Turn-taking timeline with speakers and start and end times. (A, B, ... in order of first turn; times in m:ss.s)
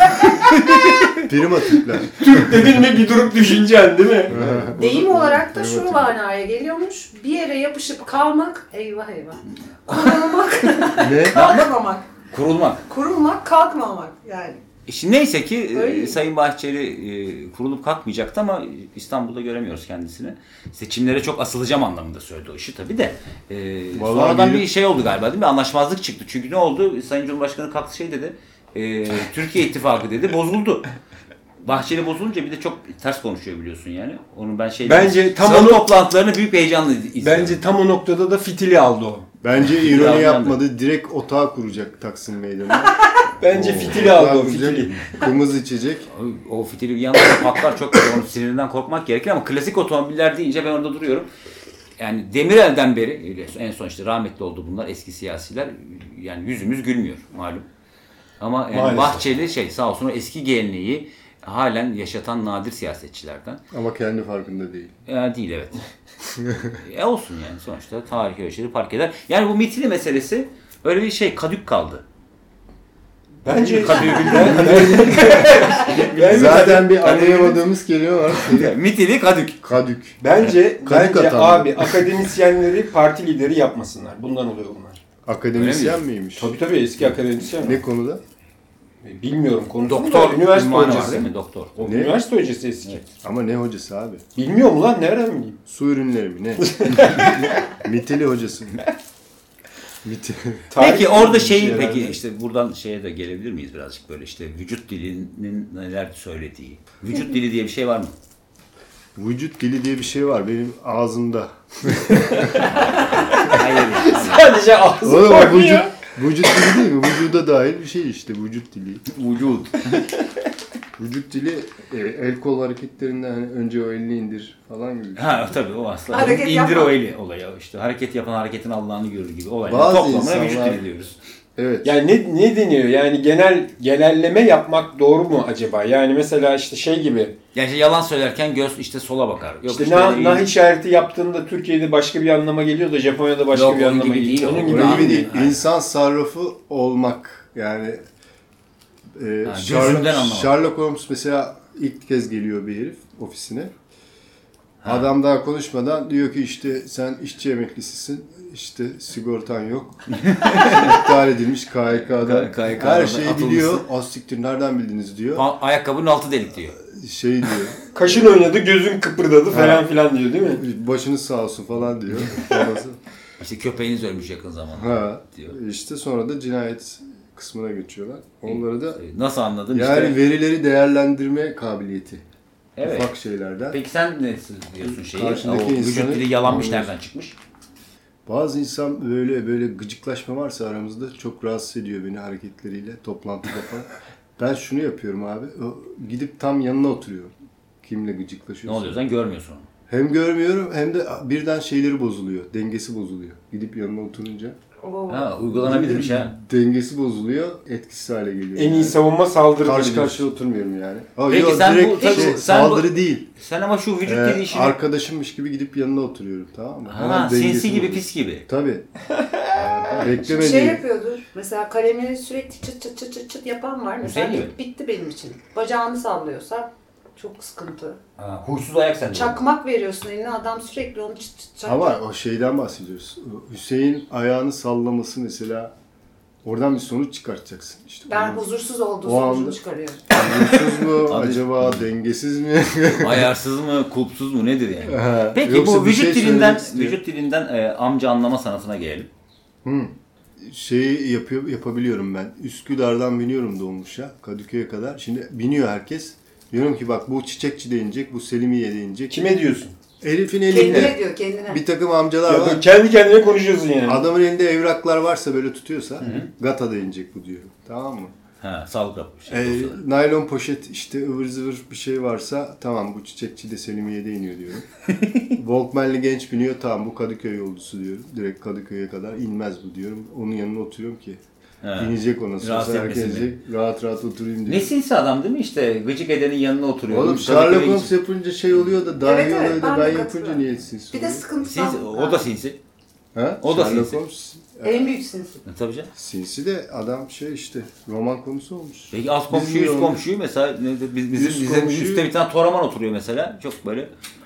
0:00.1-0:00.5 A
0:00.2-0:01.2 B
0:01.1-0:02.5 C
0:02.1-0:04.3 A
0:04.3-0:06.1 C
0:04.3-0:04.6 B
0:04.7-0:12.0 D
0:11.0-0:11.4 C
0:11.3-0:11.7 B
0:12.3-0:12.8 B
0:12.8-0:14.6 D
0:14.9-0:30.8 B
0:15.7-0:16.2 D
0:23.9-0:24.7 C
0:31.6-0:37.6 B
0:34.8-0:35.9 A
0:37.2-0:39.2 A
0:39.4-0:46.1 C
0:39.7-0:40.6 B
0:43.4-0:45.0 A
0:46.1-0:51.3 B
0:52.0-0:57.7 B
0:58.4-1:03.6 B
0:58.7-0:59.2 A
1:03.7-1:04.9 C
1:05.1-1:05.8 B
1:06.3-1:06.8 C
1:06.8-1:12.0 B
1:13.4-1:17.6 A
1:13.7-1:15.5 C
1:13.7-1:16.8 B
1:16.2-1:18.7 C
1:18.3-1:19.6 B
1:19.6-1:20.2 C
1:20.2-1:25.0 A
1:20.8-1:22.0 C
1:25.2-1:26.5 C
1:25.5-1:26.0 B
1:26.4-1:27.8 A
1:27.6-1:28.2 C
1:29.0-1:33.0 A
1:29.9-1:31.8 B
1:30.6-1:31.3 C
1:31.8-1:32.2 C
1:33.2-1:34.2 C
1:34.4-1:35.6 A
1:35.7-1:38.8 C
1:36.6-1:37.6 A
1:40.0-1:40.6 C
1:40.7-1:42.2 A
1:40.8-1:48.1 B
1:49.2-1:52.7 C
1:52.3-1:56.9 A
1:52.7-1:54.6 B
1:55.0-1:59.0 C
1:59.1-2:00.1 B
2:01.0-2:05.5 C
2:05.2-2:11.2 B
2:06.1-2:07.0 D
2:09.7-2:10.8 C
2:11.6-2:11.9 C
2:11.8-2:17.3 A
2:17.5-2:20.5 B
2:19.7-2:25.3 A
2:23.5-2:25.6 B
2:24.6-2:28.0 C
2:29.2-2:33.7 C
2:29.4-2:30.5 B
2:34.8-2:35.1 B
2:34.8-2:45.4 C
2:40.1-2:41.0 B
2:41.9-2:43.8 B
2:45.3-2:46.8 B
2:46.8-2:48.2 C
2:47.9-2:50.6 A
2:49.5-2:49.8 C
2:50.5-2:53.0 C
2:53.4-2:55.5 B
2:54.8-2:59.0 C
2:58.4-3:00.2 B
2:59.7-3:02.2 C
3:02.8-3:03.1 B
3:02.8-3:03.8 C
3:03.7-3:07.4 B
3:04.8-3:06.9 C
3:08.2-3:19.0 C
3:18.6-3:19.6 B
3:19.9-3:24.6 C
3:24.8-3:25.4 D
3:25.1-3:26.3 B
3:25.5-3:29.0 C
3:28.5-3:30.2 A
3:29.6-3:33.3 C
3:31.3-3:34.8 B
3:32.0-3:32.3 D
3:34.0-3:38.8 C
3:36.9-3:38.4 B
3:39.5-3:40.2 B
3:40.0-3:40.8 C
3:40.2-3:48.0 D
3:44.0-3:44.5 B
3:48.2-3:49.4 B
3:49.1-3:52.0 D
3:51.6-3:55.7 C
3:56.4-3:58.4 C
3:58.1-4:00.0 D
3:59.0-3:59.6 C
4:00.1-4:01.8 B
4:00.1-4:03.3 C
4:02.9-4:09.1 B
4:04.9-4:07.0 C
4:09.6-4:19.2 C
4:19.1-4:19.7 A
4:20.0-4:22.6 C
4:20.5-4:21.6 D
4:22.2-4:24.0 A
4:23.8-4:28.1 C
4:26.0-4:26.3 B
4:28.4-4:29.8 B
4:29.3-4:34.7 C
4:34.9-4:35.4 B
4:35.3-4:41.2 C
4:41.6-4:43.4 B
4:41.8-4:44.7 C
4:44.5-4:47.9 B
4:46.9-4:51.2 C
4:49.0-4:52.3 D
4:51.4-4:52.6 B
4:53.1-4:54.9 C
4:53.4-4:54.0 B
4:54.6-4:55.4 D
4:55.4-4:55.9 B
4:55.9-5:00.0 C
4:58.9-5:03.9 B
5:01.1-5:02.1 C